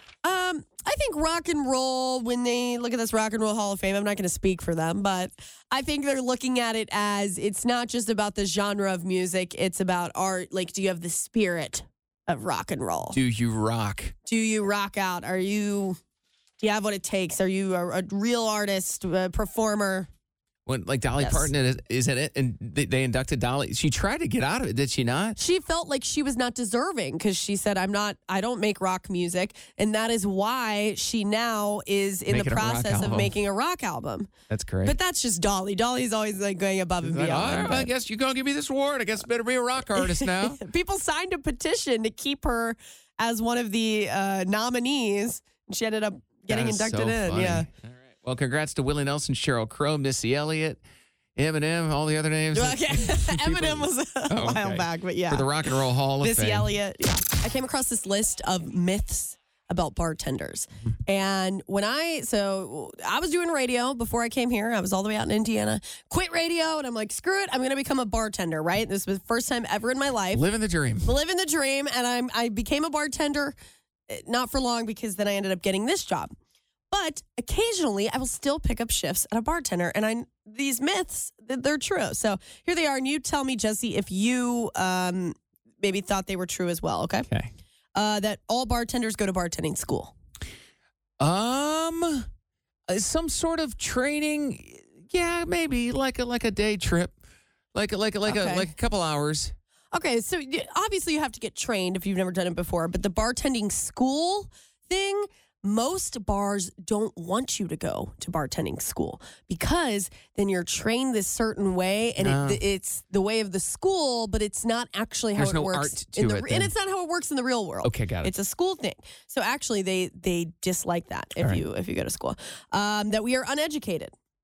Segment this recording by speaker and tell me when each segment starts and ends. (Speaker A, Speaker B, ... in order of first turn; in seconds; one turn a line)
Speaker A: 0.2-13.2
Speaker B: 13.1-14.1
Speaker A: 14.2-16.0
Speaker A: 16.6-20.1
Speaker B: 20.6-25.4
Speaker A: 21.2-21.5
Speaker A: 25.4-34.3
Speaker B: 32.3-33.3
Speaker B: 34.5-35.0
Speaker A: 34.8-37.9
Speaker B: 37.0-40.6
Speaker A: 40.0-47.7
Speaker B: 46.5-50.8
Speaker B: 51.4-56.7
Speaker A: 52.5-55.6
Speaker A: 56.2-70.4
Speaker B: 70.3-71.1
Speaker A: 71.0-73.5
Speaker A: 74.1-76.3
Speaker A: 76.9-87.3
Speaker A: 88.0-90.1
Speaker B: 91.2-92.2
Speaker B: 92.9-97.2
Speaker B: 97.7-99.5
Speaker A: 98.2-98.7
Speaker A: 99.9-124.1
Speaker B: 112.2-112.6
Speaker B: 115.3-116.7
Speaker B: 117.8-118.3